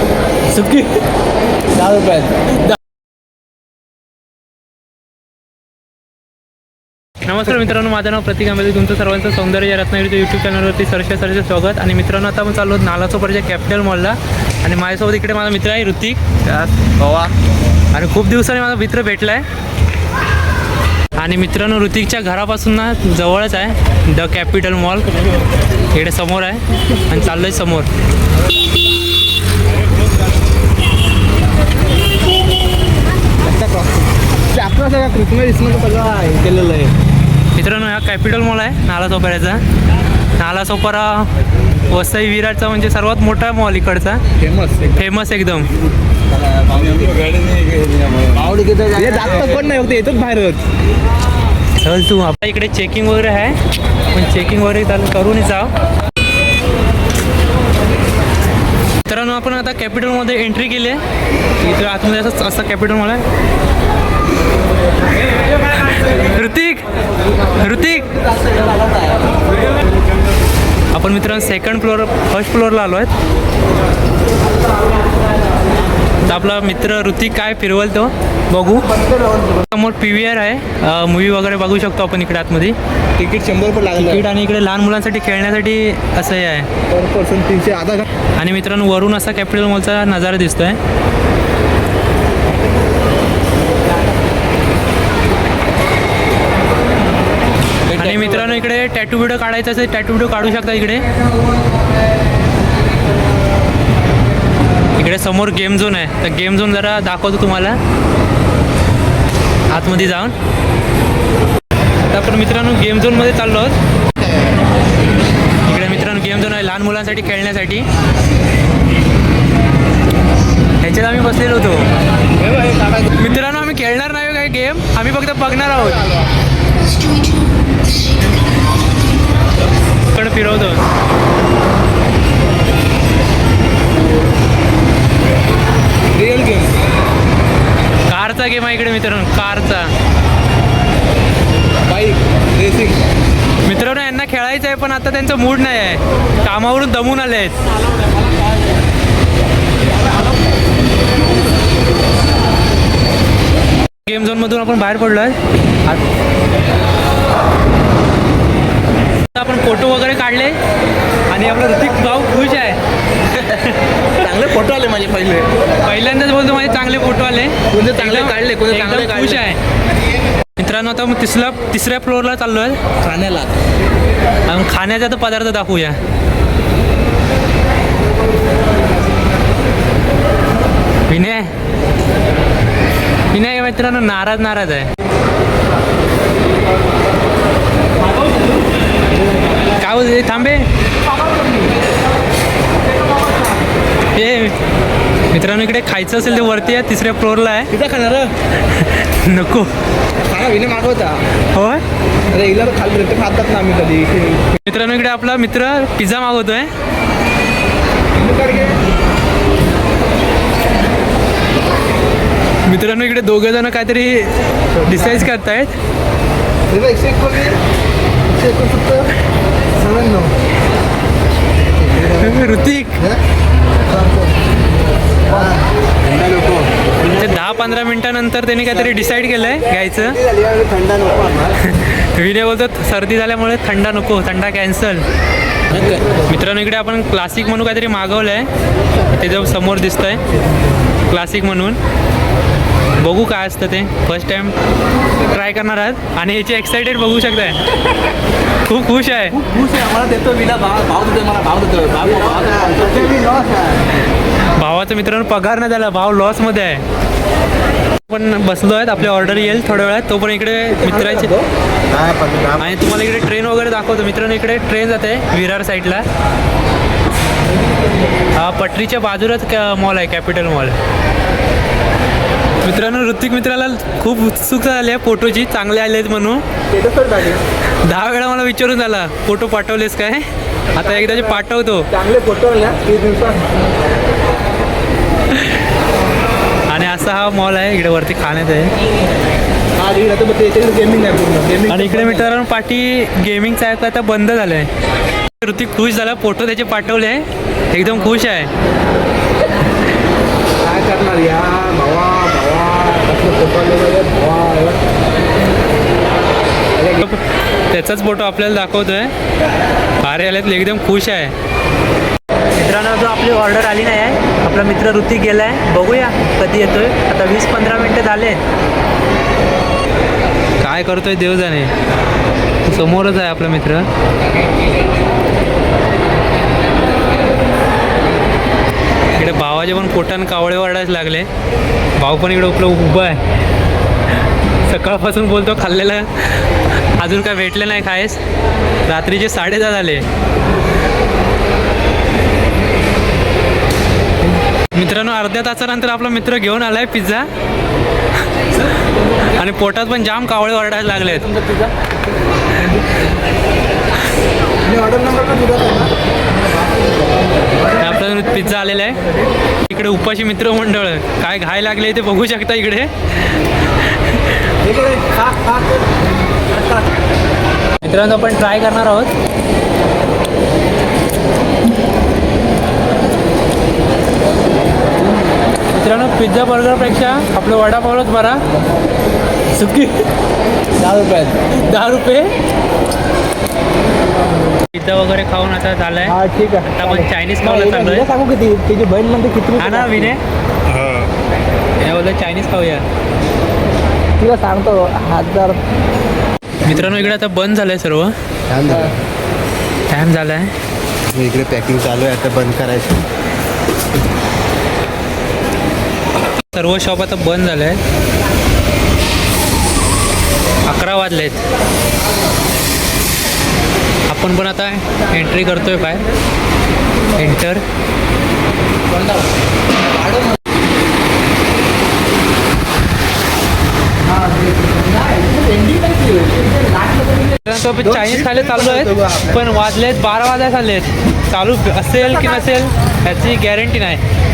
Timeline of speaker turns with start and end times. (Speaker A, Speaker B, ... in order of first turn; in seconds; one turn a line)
Speaker A: 0.5-0.9
Speaker B: 1.7-2.4
Speaker A: 7.2-16.2
Speaker B: 16.5-17.3
Speaker A: 17.9-19.4
Speaker A: 21.1-25.3
Speaker A: 25.9-27.9
Speaker B: 33.4-36.9
Speaker A: 37.5-39.6
Speaker A: 40.4-44.2
Speaker B: 44.4-45.0
Speaker A: 44.9-45.7
Speaker B: 46.6-47.4
Speaker C: 46.7-49.4
Speaker B: 48.4-50.6
Speaker A: 51.8-53.6
Speaker A: 54.1-55.7
Speaker A: 59.0-61.0
Speaker A: 61.6-63.2
Speaker A: 65.7-66.8
Speaker A: 67.5-68.1
Speaker B: 68.3-69.1
Speaker A: 70.9-73.1
Speaker A: 76.2-78.9
Speaker B: 79.0-79.6
Speaker A: 79.7-82.8
Speaker B: 83.2-84.3
Speaker A: 84.0-86.7
Speaker B: 86.9-88.1
Speaker A: 88.4-90.8
Speaker B: 97.9-98.6
Speaker A: 98.0-101.1
Speaker A: 105.0-107.8
Speaker A: 109.7-110.3
Speaker A: 112.1-113.8
Speaker A: 115.7-117.9
Speaker A: 120.8-121.9
Speaker B: 122.4-123.1
Speaker A: 123.2-126.0
Speaker A: 130.1-130.8
Speaker B: 136.1-136.8
Speaker A: 138.1-139.9
Speaker B: 141.9-143.0
Speaker A: 143.6-147.6
Speaker A: 154.0-156.0
Speaker A: 159.3-160.6
Speaker A: 161.3-162.8
Speaker A: 163.3-163.6
Speaker B: 164.1-165.5
Speaker A: 165.8-169.6
Speaker B: 167.7-169.5
Speaker A: 170.6-172.8
Speaker B: 173.0-173.6
Speaker A: 174.5-176.0
Speaker A: 181.1-181.5
Speaker A: 183.3-184.9
Speaker A: 189.7-190.7
Speaker B: 191.2-191.7
Speaker B: 193.1-193.4
Speaker A: 194.1-194.6
Speaker A: 195.3-197.7
Speaker B: 197.7-198.3
Speaker A: 198.6-199.7
Speaker B: 200.2-201.2
Speaker A: 201.5-201.8
Speaker B: 202.3-204.6
Speaker A: 204.6-206.7
Speaker B: 208.1-208.8
Speaker A: 212.7-215.7
Speaker B: 214.8-215.3
Speaker B: 216.7-217.6
Speaker B: 218.3-219.1
Speaker B: 219.8-220.3
Speaker C: 221.9-222.2
Speaker B: 221.9-222.6
Speaker A: 222.0-223.0
Speaker B: 223.9-224.2
Speaker B: 225.3-225.6
Speaker C: 225.3-226.7
Speaker A: 227.1-230.2
Speaker C: 230.2-231.5
Speaker A: 231.6-235.1
Speaker B: 235.7-236.2
Speaker A: 235.8-238.5
Speaker A: 239.1-240.2
Speaker A: 241.1-241.8
Speaker A: 243.0-244.5
Speaker A: 245.3-247.6
Speaker A: 248.6-249.4
Speaker B: 249.3-253.8
Speaker C: 252.2-253.4
Speaker A: 254.5-256.8
Speaker A: 258.1-261.3
Speaker B: 260.7-261.5
Speaker C: 261.9-262.6
Speaker A: 262.6-266.1
Speaker A: 268.4-270.8
Speaker A: 272.6-276.4
Speaker B: 276.7-277.4
Speaker A: 277.8-281.9
Speaker B: 280.7-283.6
Speaker A: 285.3-285.6
Speaker A: 286.7-288.7
Speaker B: 289.8-292.3
Speaker A: 291.7-294.7
Speaker A: 295.4-298.5
Speaker B: 300.6-304.8
Speaker B: 306.8-307.1
Speaker A: 307.0-309.1
Speaker A: 310.0-311.4
Speaker A: 312.5-318.4
Speaker A: 320.6-321.7
Speaker A: 322.6-323.9
Speaker A: 329.1-331.3
Speaker A: 332.0-333.2
Speaker A: 334.6-338.2
Speaker A: 338.9-340.1
Speaker A: 344.7-347.3
Speaker A: 349.2-351.3
Speaker B: 351.3-351.7
Speaker B: 354.6-355.9
Speaker A: 357.8-359.0
Speaker A: 359.7-364.4
Speaker B: 364.6-365.9
Speaker B: 366.5-366.9
Speaker A: 367.8-369.1
Speaker A: 375.7-378.5
Speaker A: 379.5-380.1
Speaker B: 380.8-381.4
Speaker A: 381.5-382.4
Speaker A: 384.7-388.1
Speaker B: 386.1-390.1
Speaker A: 389.6-390.2
Speaker A: 391.8-392.9
Speaker B: 394.2-395.6
Speaker A: 396.6-398.1
Speaker C: 398.5-398.8
Speaker A: 399.9-400.5
Speaker C: 401.1-403.0
Speaker A: 406.5-407.8
Speaker A: 410.7-411.4
Speaker A: 414.1-416.1
Speaker B: 415.0-416.1
Speaker A: 417.1-417.6
Speaker B: 418.9-419.3
Speaker B: 419.9-420.4
Speaker B: 424.1-429.5
Speaker A: 427.4-434.0